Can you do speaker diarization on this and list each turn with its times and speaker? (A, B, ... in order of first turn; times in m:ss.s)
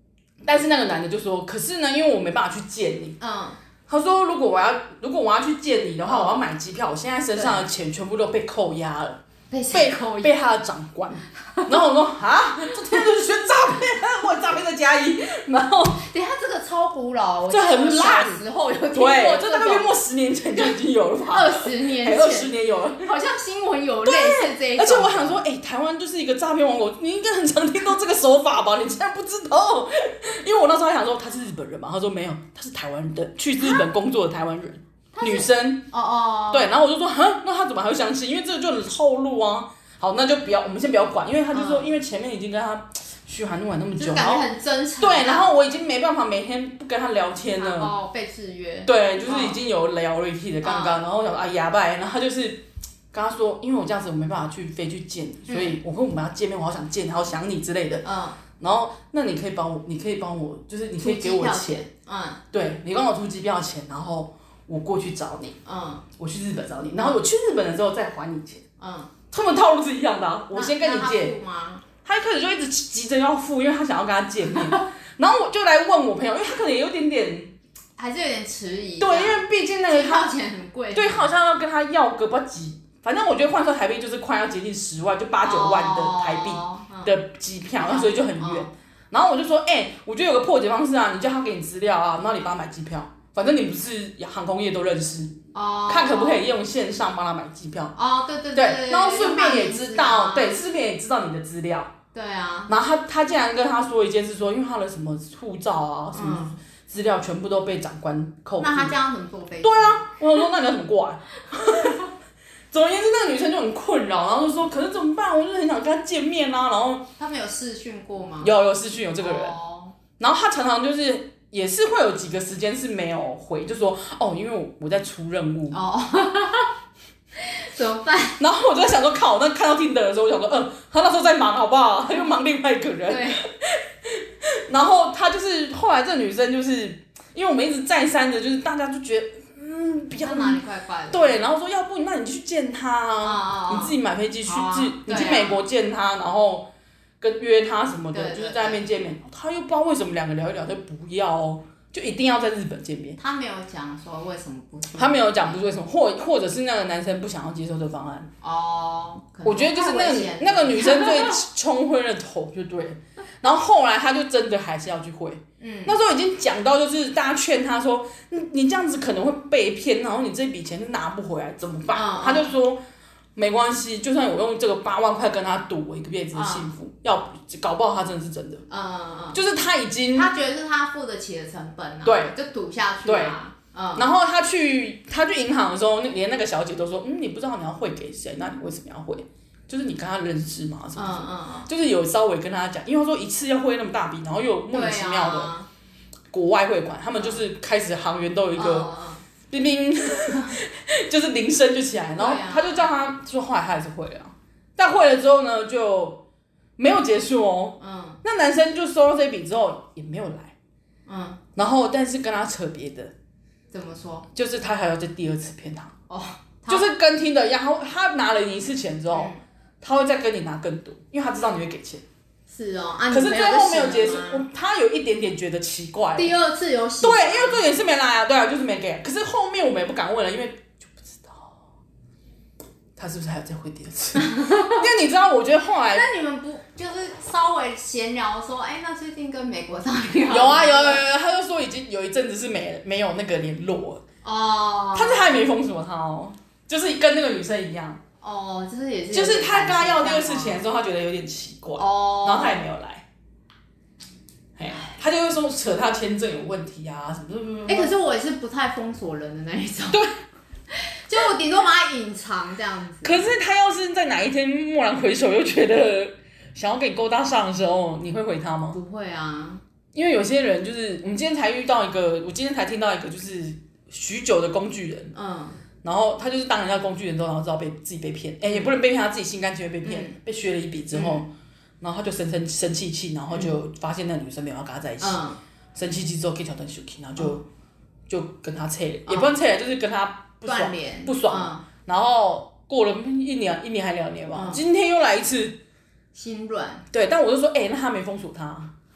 0:00.4-0:03.2 A
0:03.2-0:03.6 B
0:03.9-0:09.2 A
0:06.1-0:06.4 B
0:07.4-0:07.6 B
0:09.5-0:10.4 B
0:09.7-0:16.0 A
0:16.0-0:19.9 B
0:17.5-0:18.4 A
0:18.9-0:23.1 A
0:21.3-0:25.4 B
0:24.0-0:35.9 A
0:35.1-0:36.8 B
0:36.5-0:44.5 A
0:41.5-0:41.9 B
0:44.0-0:45.5 B
0:45.0-0:47.9 A
0:47.6-0:49.6 B
0:48.8-0:58.1 A
0:50.6-0:51.0 B
0:55.5-0:55.8 B
0:58.0-0:58.4 B
0:58.6-1:01.9 A
1:01.0-1:02.4 B
1:02.5-1:05.6 A
1:05.6-1:06.1 B
1:06.2-1:08.6 A
1:08.8-1:09.1 B
1:09.3-1:11.4 A
1:10.5-1:11.9 B
1:12.0-1:17.6 A
1:18.0-1:21.3 B
1:19.0-1:20.3 A
1:20.9-1:38.0 A
1:25.4-1:27.1 B
1:27.8-1:28.7 B
1:35.5-1:36.4 B
1:38.0-1:40.6 B
1:38.5-1:42.0 A
1:42.1-1:42.7 B
1:42.7-1:49.0 A
1:46.1-1:46.6 B
1:48.6-1:50.1 B
1:49.6-1:52.1 A
1:51.7-1:52.0 B
1:52.7-1:57.1 A
1:57.2-1:58.5 B
1:58.4-1:59.6 A
1:59.2-2:00.0 B
2:00.2-2:05.8 A
2:05.7-2:06.7 B
2:07.4-2:08.4 B
2:08.4-2:26.7 A
2:13.1-2:13.4 B
2:20.2-2:21.4 B
2:23.2-2:25.6 B
2:27.2-2:33.2 A
2:28.1-2:28.8 B
2:33.2-2:35.6 B
2:35.0-2:38.3 A
2:38.4-2:41.4 B
2:39.4-2:52.8 A
2:45.6-2:46.0 B
2:51.9-2:52.5 B
2:53.4-2:58.7 A
2:56.3-2:56.7 B
2:58.7-2:59.4 B
2:59.3-3:00.3 A
3:00.1-3:04.1 B
3:02.0-3:02.3 A
3:03.0-3:03.4 A
3:04.0-3:15.5 A
3:11.0-3:11.7 B
3:14.7-3:15.7 B
3:16.3-3:18.9 A
3:17.2-3:17.4 B
3:18.6-3:19.2 B
3:19.5-3:26.2 A
3:22.2-3:22.9 B
3:26.8-3:30.6 A
3:27.8-3:28.2 B
3:31.1-3:31.4 B
3:31.6-3:33.1 A
3:33.7-3:34.3 B
3:34.3-3:36.0 A
3:36.1-3:36.9 B
3:36.7-3:42.0 A
3:39.1-3:39.4 B
3:42.5-3:44.5 B
3:43.1-3:46.4 A
3:46.2-3:47.7 B
3:47.0-3:51.6 A
3:53.0-3:56.0 A
3:54.2-3:54.9 B
3:55.9-4:01.0 B
4:00.3-4:04.0 A
4:04.2-4:05.4 B
4:05.0-4:08.0 A
4:08.2-4:10.6 B
4:09.1-4:13.0 A
4:11.8-4:12.7 B
4:14.6-4:17.9 A
4:17.7-4:20.0 B
4:20.7-4:23.3 B
4:23.0-4:28.8 A
4:28.7-4:29.6 B
4:29.9-4:35.1 A
4:35.1-4:35.6 B
4:35.8-4:45.2 A
4:38.5-4:38.7 B
4:39.8-4:40.2 B
4:40.9-4:41.2 B
4:45.0-4:45.4 B
4:45.8-4:47.5 A
4:48.1-4:55.6 A
4:49.1-4:49.4 B
4:50.4-4:51.6 B
4:54.3-4:54.6 B
4:56.1-4:56.9 B
4:56.9-4:58.7 A